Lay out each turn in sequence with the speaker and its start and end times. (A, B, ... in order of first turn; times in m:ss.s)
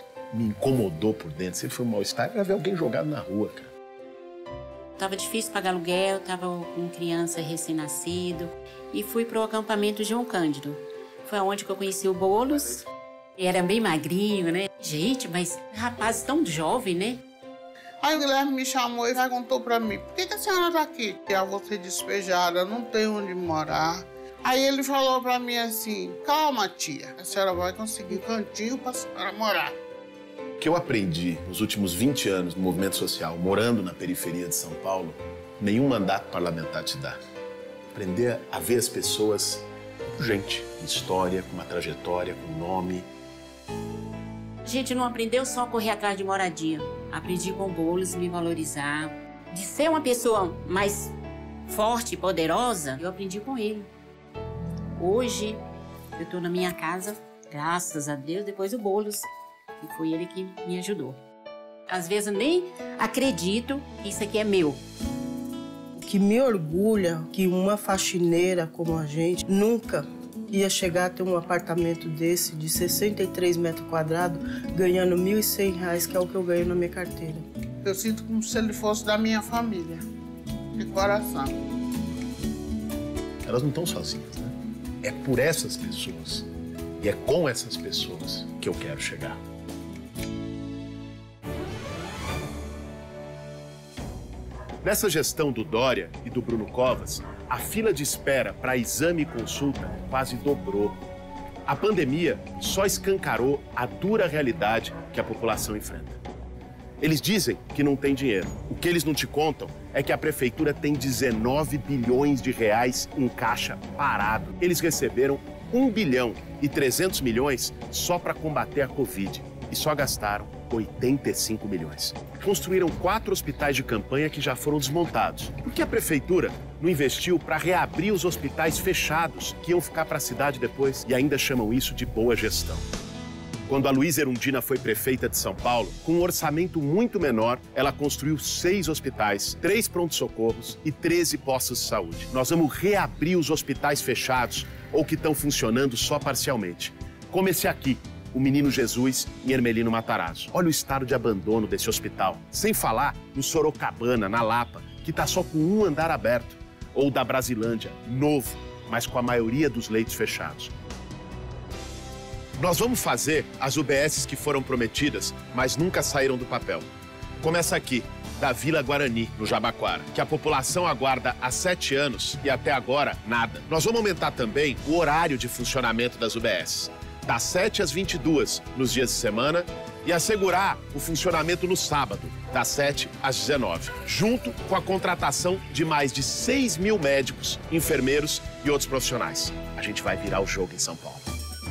0:00.3-0:03.7 A
0:05.0-0:12.8 B
0:13.4-0:17.2 B
0:18.0-0:29.8 C
0:30.6-0:37.2 A
0:37.9-0:39.6 A
0:40.2-0:43.1 A
0:44.6-0:51.1 B
0:51.7-0:53.9 B
0:55.0-0:55.6 B
0:56.2-0:59.3 B
0:59.8-1:01.2 B
1:01.9-1:04.8 B
1:05.9-1:17.4 D
1:17.8-1:20.0 C
1:20.8-1:21.6 C
1:23.4-1:26.5 A
1:27.0-1:29.4 A
1:34.8-1:41.0 A
1:41.7-1:46.2 A
1:47.0-2:12.8 A
2:13.7-2:40.7 A
2:42.6-2:46.9 A
2:47.4-3:11.2 A